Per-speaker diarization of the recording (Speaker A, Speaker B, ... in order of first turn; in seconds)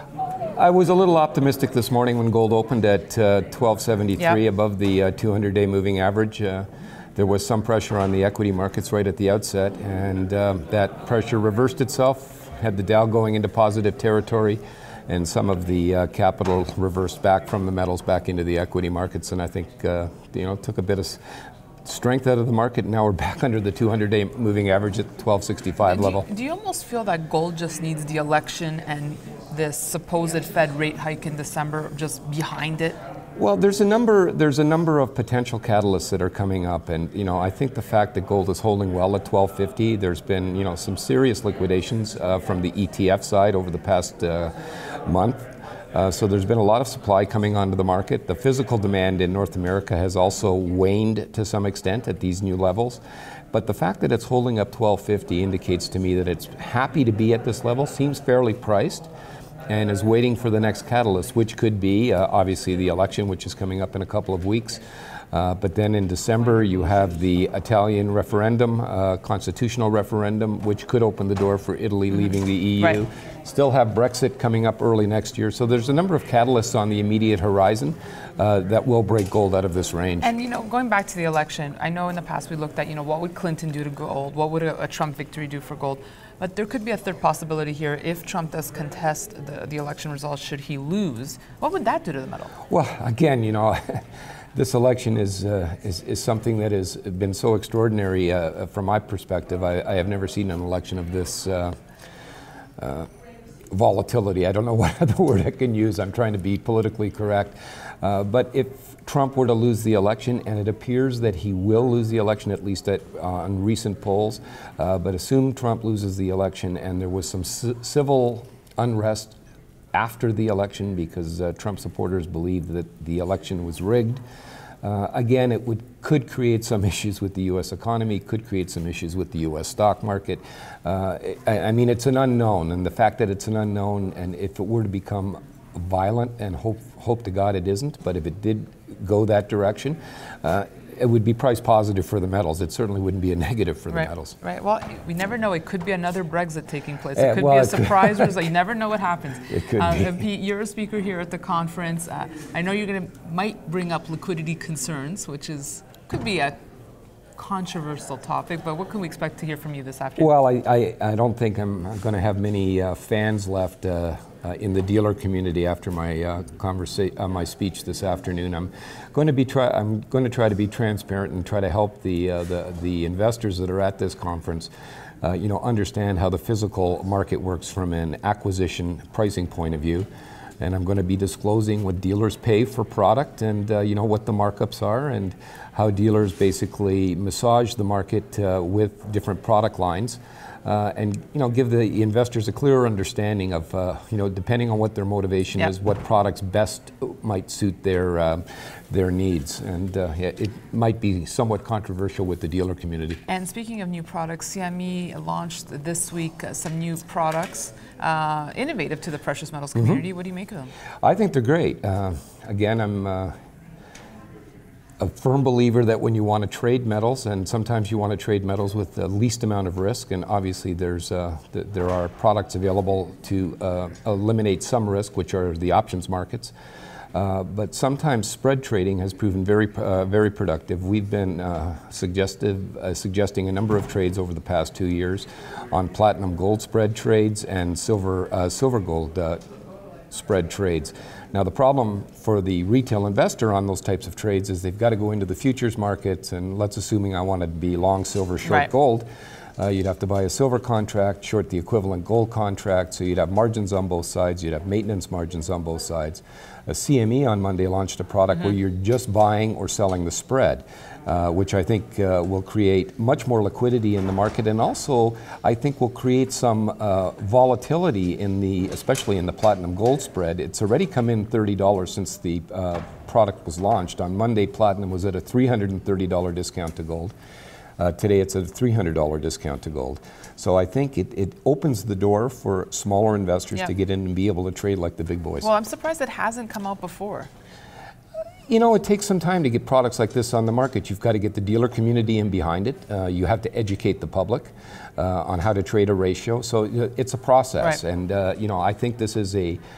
Speaker A: 0.6-21.2, 21.9-26.2, 33.4-44.5, 45.1-45.4, 45.9-53.0, 53.5-59.1, 59.7-64.8, 65.3-80.3, 92.7-94.0, 94.5-101.7, 102.8-103.1, 103.7-119.4, 119.9-124.2, 124.8-144.4, 147.2-148.3, 149.5-150.2, 160.2-174.7, 175.2-180.1, 180.6-203.2, 209.8-210.0, 211.0-213.3, 215.0-226.5, 227.1-239.4, 240.1-249.1, 249.6-277.1, 277.8-285.5, 288.5-299.6
Speaker B: 25.8-33.0, 80.2-92.5, 143.9-156.6, 157.4-160.3, 203.3-210.7, 285.4-287.3